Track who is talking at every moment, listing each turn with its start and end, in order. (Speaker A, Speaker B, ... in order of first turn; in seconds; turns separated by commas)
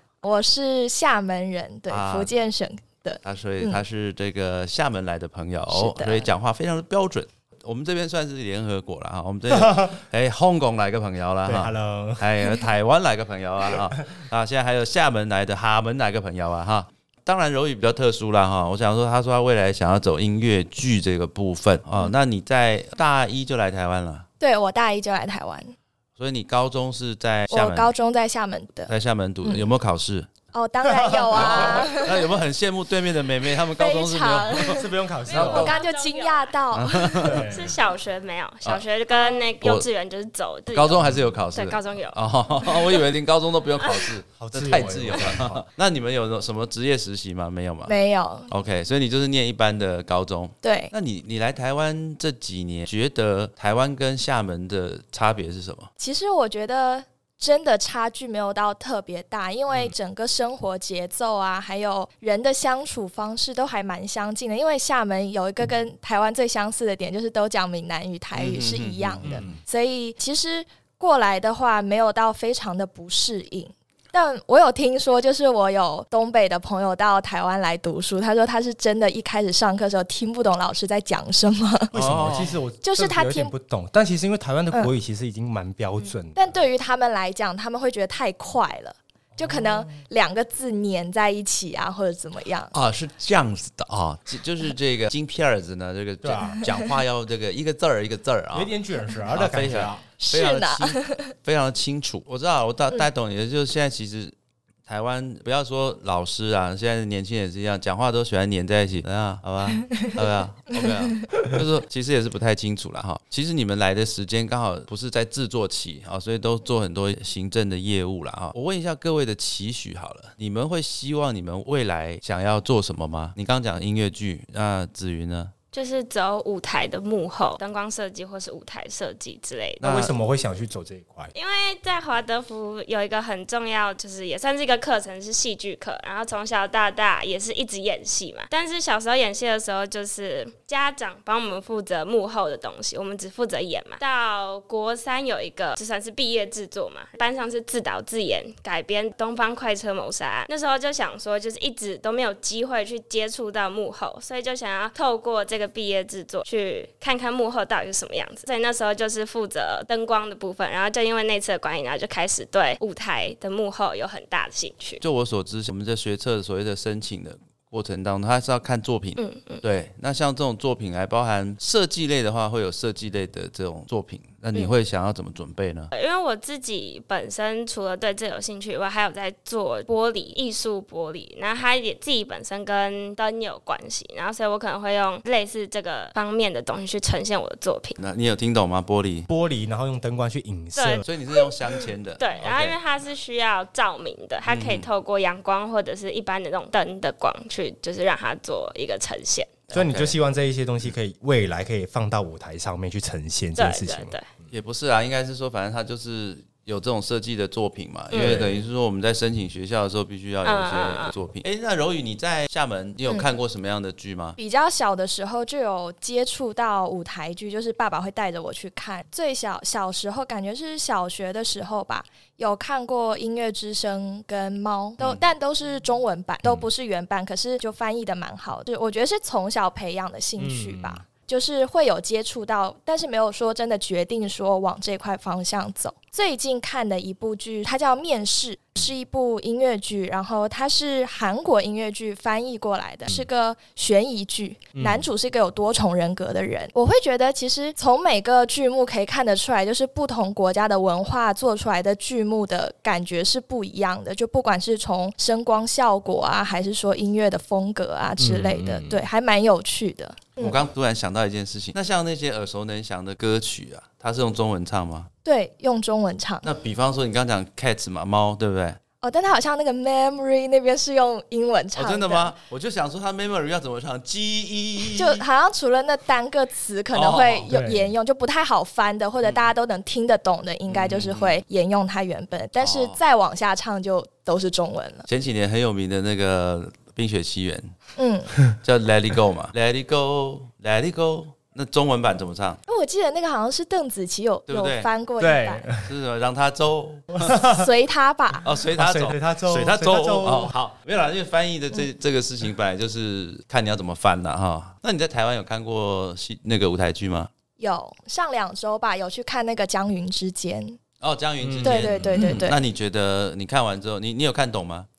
Speaker A: 0.2-3.8, Speaker B: 1.9-2.3, Speaker B: 3.2-24.3, Speaker A: 5.7-6.3, Speaker C: 9.5-9.9, Speaker C: 11.4-12.3, Speaker A: 24.4-25.7, Speaker B: 26.2-27.9, Speaker A: 27.5-29.7, Speaker B: 28.9-30.3, Speaker A: 30.5-32.4, Speaker C: 31.0-31.9, Speaker B: 31.3-34.8, Speaker A: 33.7-37.5, Speaker C: 34.7-35.8, Speaker D: 35.3-36.6, Speaker B: 35.3-35.7, Speaker B: 36.7-37.5, Speaker C: 37.2-37.8, Speaker D: 37.5-43.0, Speaker A: 39.1-39.5, Speaker B: 39.6-39.9, Speaker B: 40.7-47.9, Speaker D: 43.8-44.1, Speaker C: 44.4-45.6, Speaker A: 47.9-48.5, Speaker B: 48.5-55.9, Speaker A: 50.6-50.9, Speaker A: 56.0-81.9, Speaker B: 68.3-69.6, Speaker C: 81.9-86.6, Speaker B: 81.9-82.6, Speaker A: 82.8-83.5, Speaker A: 86.3-92.7, Speaker C: 89.3-90.0, Speaker B: 92.7-98.7, Speaker C: 96.2-96.7, Speaker C: 98.5-100.1, Speaker B: 99.3-104.3, Speaker A: 100.2-101.3, Speaker B: 104.9-125.5, Speaker D: 125.7-129.8, Speaker B: 129.8-130.1, Speaker C: 129.8-131.3, Speaker D: 131.3-165.0, Speaker B: 165.0-175.9, Speaker D: 169.2-169.6, Speaker D: 175.9-188.0, Speaker B: 188.0-189.3, Speaker C: 189.3-191.1, Speaker D: 190.8-199.6, Speaker B: 191.0-192.8, Speaker B: 194.5-194.9, Speaker B: 199.7-200.2, Speaker C: 199.7-204.2, Speaker D: 203.6-204.2, Speaker B: 204.5-214.4, Speaker D: 208.1-208.4, Speaker C: 208.1-208.6, Speaker D: 210.4-211.1, Speaker A: 214.4-260.6, Speaker B: 225.0-225.2, Speaker C: 230.4-231.0, Speaker C: 244.8-245.1, Speaker C: 258.2-259.0, Speaker B: 260.4-265.1, Speaker A: 265.2-266.5, Speaker B: 266.4-268.8, Speaker A: 269.0-272.3, Speaker B: 271.7-275.2, Speaker A: 274.9-285.1, Speaker B: 276.9-277.5, Speaker C: 277.5-277.9, Speaker B: 280.7-281.4, Speaker B: 282.6-283.0, Speaker B: 285.1-287.7, Speaker A: 288.0-288.3, Speaker B: 288.6-292.6, Speaker A: 292.7-295.7, Speaker B: 294.5-294.9, Speaker C: 295.2-295.9, Speaker B: 295.9-297.3, Speaker C: 297.2-297.7, Speaker A: 297.5-298.5, Speaker B: 298.4-307.3, Speaker C: 298.7-300.5, Speaker A: 307.6-310.8, Speaker B: 311.0-314.9, Speaker C: 311.4-312.4, Speaker A: 311.6-312.6